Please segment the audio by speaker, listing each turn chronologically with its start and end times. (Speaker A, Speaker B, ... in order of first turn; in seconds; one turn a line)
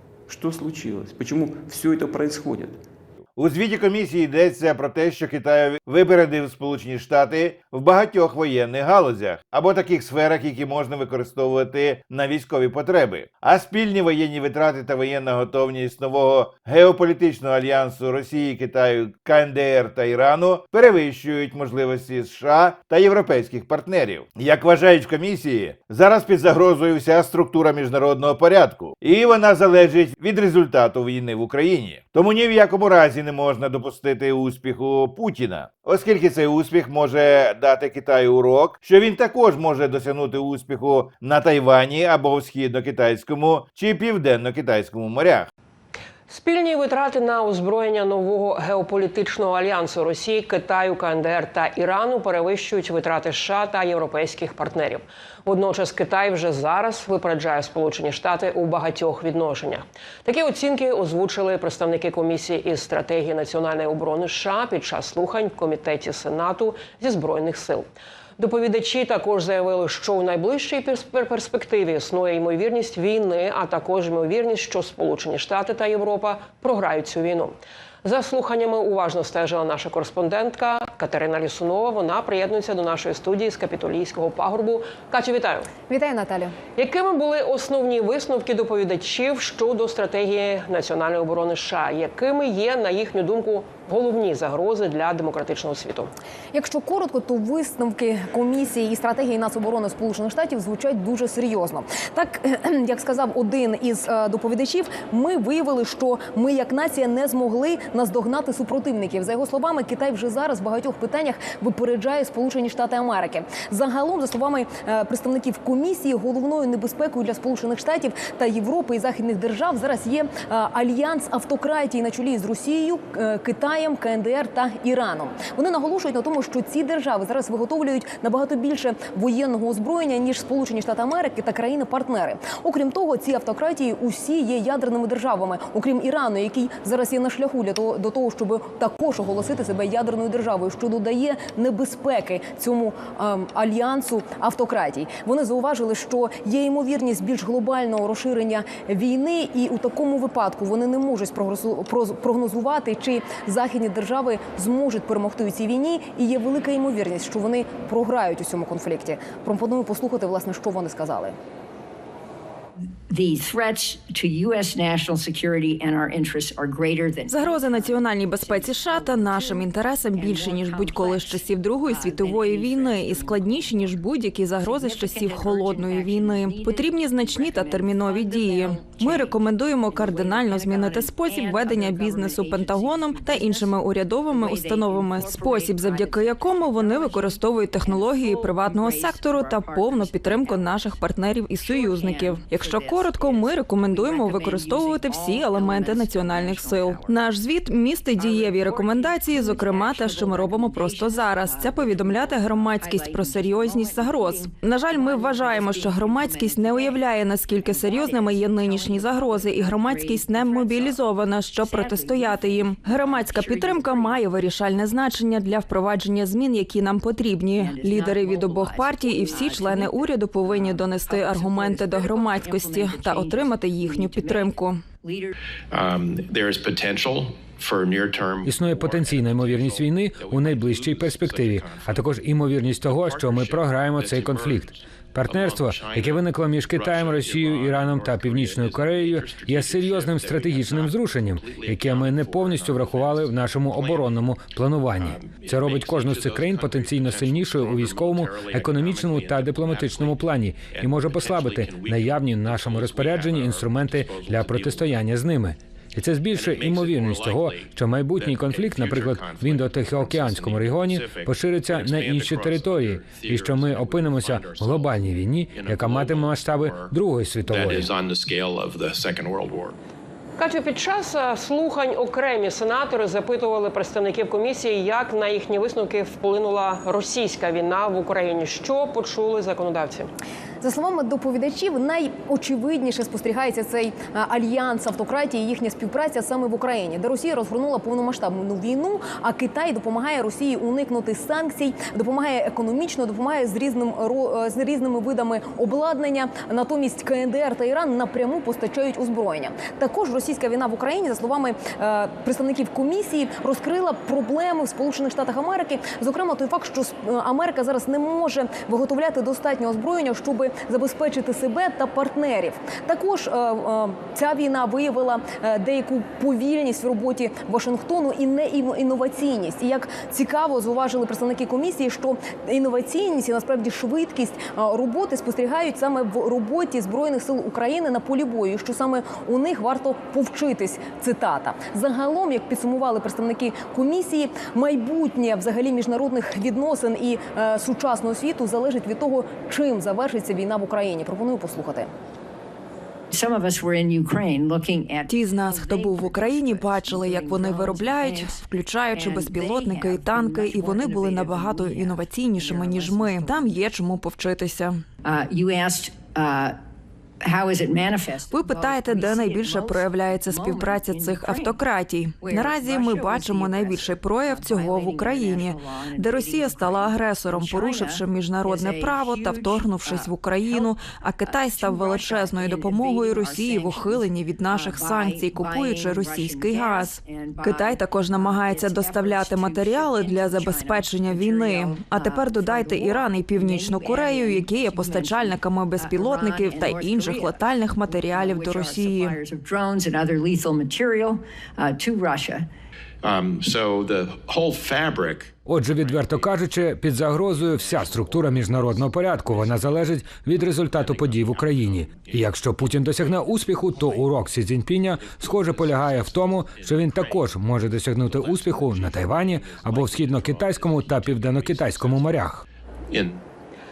Speaker A: 0.3-2.8
Speaker B: 3.4-45.5
Speaker C: 46.3-85.7
Speaker D: 85.9-86.5
Speaker C: 86.7-96.1
Speaker D: 96.5-161.3
Speaker E: 162.8-173.9
Speaker F: 167.3-224.8
Speaker E: 174.6-179.3
Speaker E: 179.9-183.8
Speaker E: 184.3-190.6
Speaker E: 191.6-197.2
Speaker E: 198.2-207.0
Speaker E: 207.6-211.0
Speaker E: 211.6-214.1
Speaker E: 217.6-225.3
Speaker G: 225.7-232.2
Speaker H: 228.4-267.9
Speaker G: 232.8-244.1
Speaker G: 245.0-255.0
Speaker G: 256.3-266.9
Speaker G: 267.5-269.8
Speaker C: 270.4-280.1
Speaker D: 280.6-341.9
Speaker E: 343.1-348.4
Speaker F: 345.1-354.8
Speaker E: 349.0-353.6
Speaker E: 355.0-356.6
Speaker E: 357.2-361.5
Speaker F: 358.2-389.2
Speaker E: 362.2-370.7
Speaker E: 371.3-392.5
Speaker G: 393.0-396.4
Speaker H: 395.4-412.4
Speaker G: 397.3-399.9
Speaker G: 400.7-404.1
Speaker G: 404.9-407.3
Speaker G: 407.8-412.1
Speaker G: 412.9-413.2